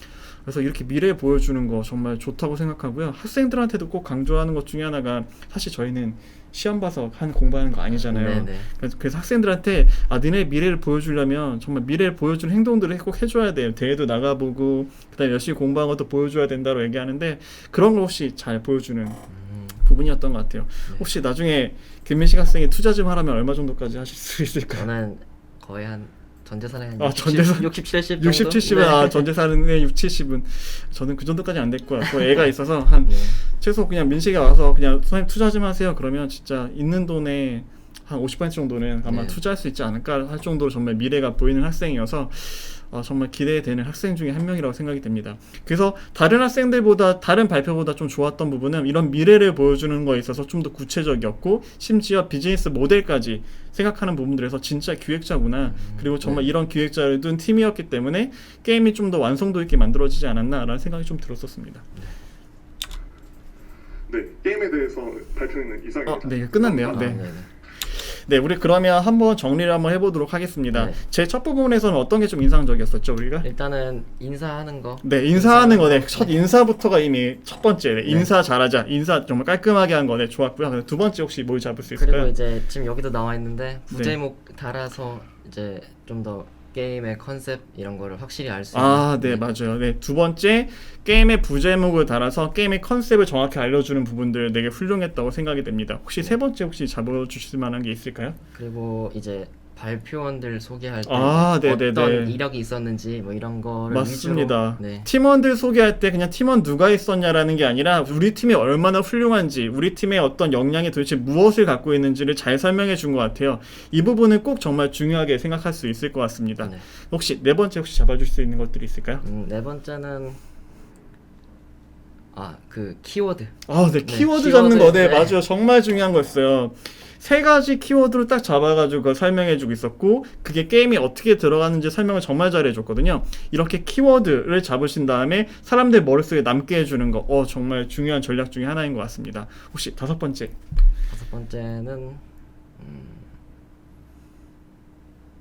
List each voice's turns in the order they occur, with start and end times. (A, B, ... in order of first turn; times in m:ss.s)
0:00.3-0:19.3 A
0:07.9-0:08.7 B
0:19.3-0:19.8 B
0:19.8-0:24.9 A
0:24.7-0:29.3 B
0:27.0-1:01.8 A
0:33.0-0:33.4 B
0:39.0-0:39.4 B
0:55.6-0:56.5 B
1:04.1-1:07.1 C
1:06.0-1:13.5 A
1:06.8-1:07.5 B
1:10.7-1:11.0 B
1:13.4-1:16.4 B
1:15.0-1:22.3 A
1:18.0-1:18.3 B
1:21.9-1:29.5 B
1:23.9-1:24.2 A
1:28.7-1:38.4 A
1:38.5-1:45.1 B
1:41.0-1:42.4 A
1:43.9-1:59.2 A
1:56.6-1:56.8 B
1:59.2-2:00.4 B
2:02.3-2:05.4 B
2:03.7-2:20.5 A
2:21.1-2:22.2 B
2:22.8-2:23.3 B